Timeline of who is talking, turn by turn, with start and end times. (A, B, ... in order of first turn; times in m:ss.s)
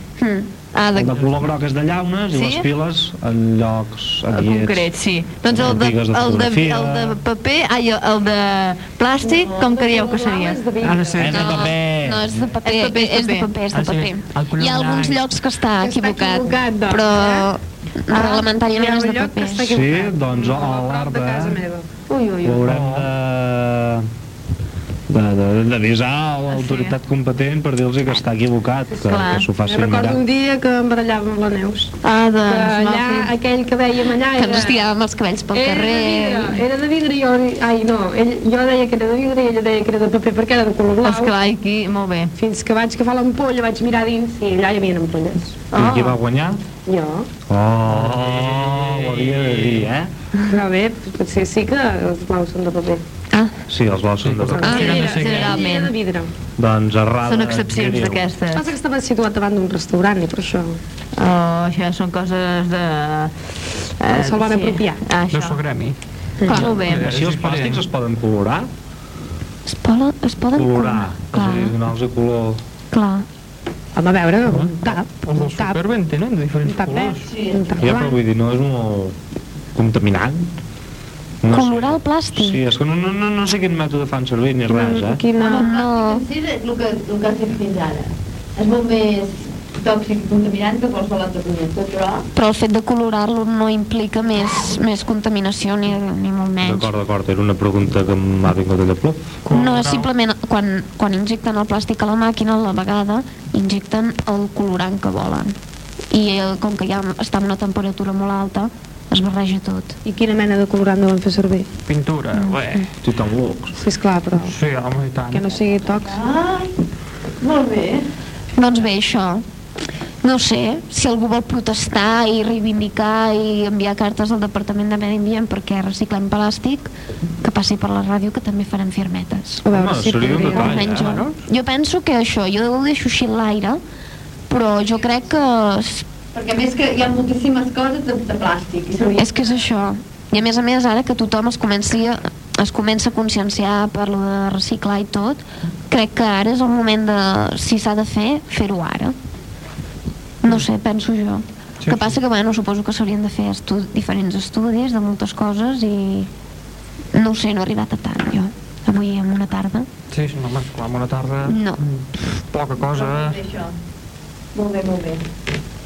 0:00.2-0:00.5 A
0:00.7-0:01.1 B
0:00.9-0:04.9 C
0:02.3-0:02.7 B
0:04.3-0:10.6 B
0:05.5-0:07.2 C
0:09.2-0:11.4 D
0:10.8-0:11.6 E
0:11.2-0:12.5 C
0:11.2-0:19.8 A
0:12.6-0:13.5 B
0:13.7-0:15.3 E
0:15.8-0:17.5 D
0:18.1-0:22.4 D
0:19.6-0:21.6 C
0:22.1-0:22.6 B
0:22.4-0:24.1 C
0:22.6-0:23.1 E
0:25.1-0:30.2 C
0:26.5-0:27.0 B
0:29.0-0:29.4 B
0:29.6-0:31.9 D
0:32.0-0:33.3 B
0:32.4-0:34.8 D
0:34.3-0:36.6 A
0:35.5-0:41.3 D
0:41.0-0:42.3 B
0:42.4-0:45.6 D
0:45.7-0:46.2 B
0:45.7-0:46.6 C
0:46.8-0:47.3 D
0:47.5-0:50.1 C
0:47.9-0:49.9 E
0:50.4-0:53.0 D
0:53.3-0:53.6 A
0:53.7-0:54.8 C
0:54.2-0:55.7 E
0:54.5-0:56.3 D
0:54.6-0:55.0 A
0:54.7-0:56.0 B
0:56.6-0:58.2 C
0:57.2-0:58.7 B
0:58.5-1:00.8 D
1:01.2-1:05.6 B
1:04.1-1:05.0 D
1:05.3-1:06.0 E
1:06.4-1:06.7 D
1:06.4-1:07.1 B
1:06.5-1:07.8 E
1:06.7-1:08.7 C
1:09.6-1:11.7 A
1:10.5-1:12.6 C
1:12.9-1:13.3 A
1:13.9-1:15.8 D
1:14.5-1:17.3 E
1:16.6-1:18.2 D
1:17.2-1:17.8 B
1:17.8-1:19.2 C
1:19.7-1:20.5 C
1:21.4-1:25.2 C
1:21.5-1:22.6 A
1:24.7-1:25.7 D
1:25.4-1:32.2 B
1:25.4-1:26.2 A
1:32.3-1:36.9 A
1:36.6-1:39.3 C
1:39.4-1:40.1 E
1:39.5-1:45.6 A
1:46.1-1:50.0 A
1:50.0-1:51.7 D
1:51.9-1:52.9 E
1:52.3-1:52.8 A
1:53.0-1:53.7 C
1:53.7-1:54.6 D
1:54.4-1:55.5 E
1:55.3-1:56.2 D
1:56.0-1:56.7 B
1:57.4-1:58.0 B
1:58.5-1:59.4 A
2:00.2-2:09.6 A
2:09.6-2:10.9 D
2:09.7-2:11.2 C
2:10.3-2:11.4 E
2:10.4-2:13.8 A
2:14.5-2:16.1 A
2:16.3-2:19.5 B
2:19.2-2:29.2 A
2:30.4-2:36.3 A
2:31.8-2:32.2 E
2:37.1-2:39.9 A
2:40.1-2:43.4 E
2:41.4-2:41.8 A
2:42.9-2:43.8 B
2:44.5-2:45.2 B